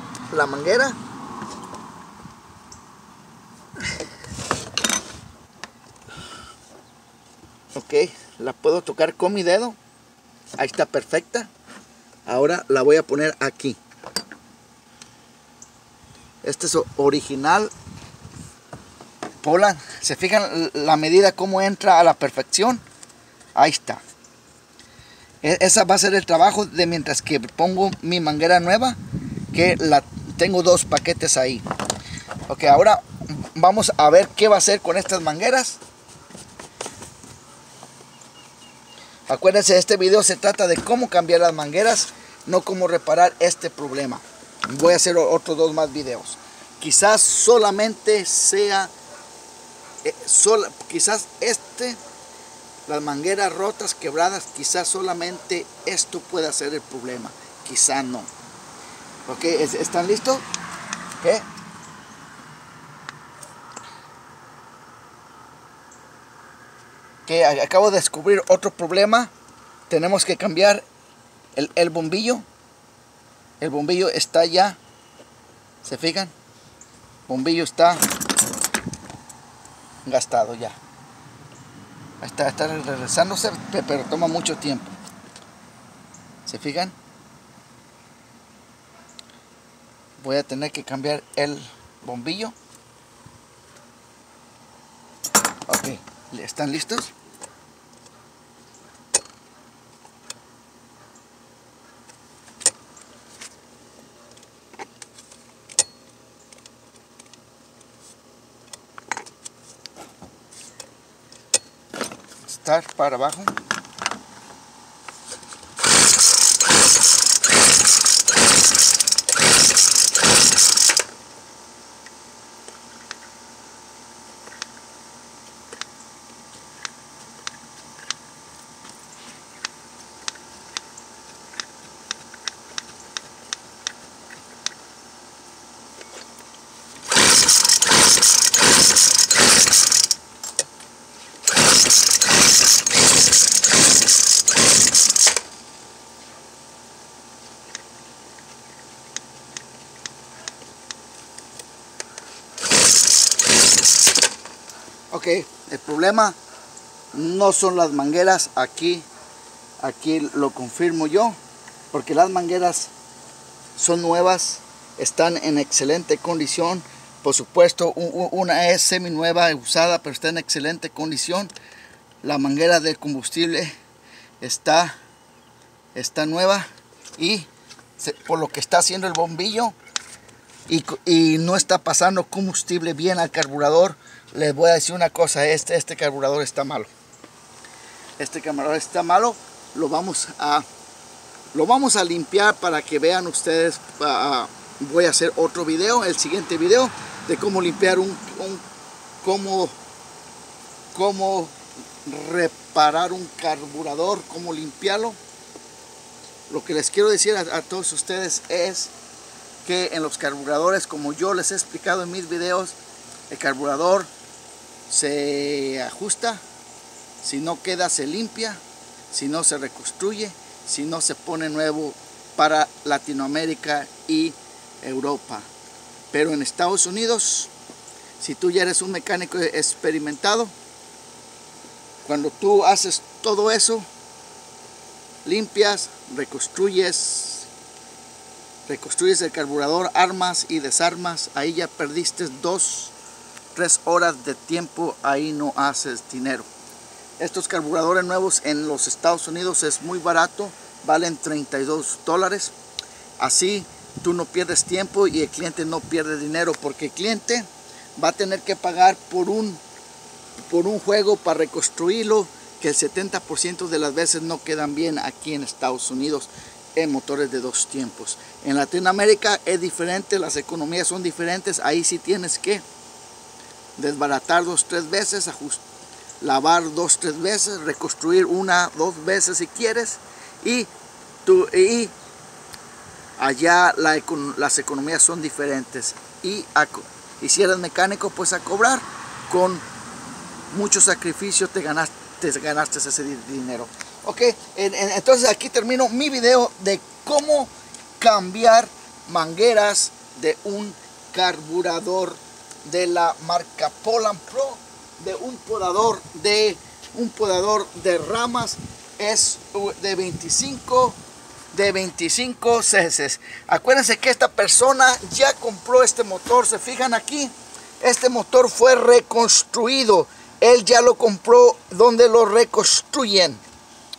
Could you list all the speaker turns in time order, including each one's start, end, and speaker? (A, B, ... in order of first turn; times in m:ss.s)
0:00.3-0:01.0 A
0:07.7-0:09.8 A
0:10.6-0:11.5 A
0:12.3-0:13.8 A
0:16.4-0:17.7 A
0:19.4-0:22.8 A
0:23.6-0:24.0 A
0:25.4-0:29.0 A
0:29.5-0:31.7 A
0:32.5-0:35.8 A
0:39.3-0:48.9 A
0:50.0-0:52.0 A
0:52.9-0:58.3 A
0:59.3-1:00.5 A
1:01.2-1:01.5 A
1:07.3-1:09.3 A
1:09.9-1:10.9 A
1:11.6-1:12.5 A
1:13.6-1:14.8 A
1:15.8-1:16.3 A
1:17.3-1:18.0 A
1:20.0-1:20.8 A
1:22.2-1:24.9 A
1:26.5-1:27.0 A
1:30.2-1:32.6 A
1:35.7-1:37.1 A
1:52.5-1:53.6 A
2:35.1-2:36.4 A
2:37.1-2:39.1 A
2:39.8-2:41.4 A
2:41.9-2:42.9 A
2:43.8-2:51.5 A
2:52.2-2:53.8 A
2:54.4-2:55.0 A
2:56.0-2:59.8 A
3:00.7-3:06.9 A
3:08.2-3:10.6 A
3:11.5-3:18.6 A
3:19.2-3:19.8 A
3:20.9-3:21.5 A
3:22.0-3:25.2 A
3:26.5-3:28.9 A
3:29.6-3:32.8 A
3:33.3-3:34.1 A
3:34.9-3:36.4 A
3:37.2-3:38.6 A
3:39.1-3:45.5 A
3:46.1-3:47.5 A
3:48.2-3:50.5 A
3:52.0-3:53.9 A
3:55.2-3:57.5 A
3:58.7-4:02.9 A
4:03.5-4:06.5 A
4:07.2-4:12.5 A
4:13.2-4:19.6 A
4:20.4-4:32.6 A
4:33.8-4:35.6 A
4:36.2-4:40.7 A
4:41.2-4:41.9 A
4:43.2-4:49.6 A
4:50.5-5:11.0 A
5:11.5-5:23.4 A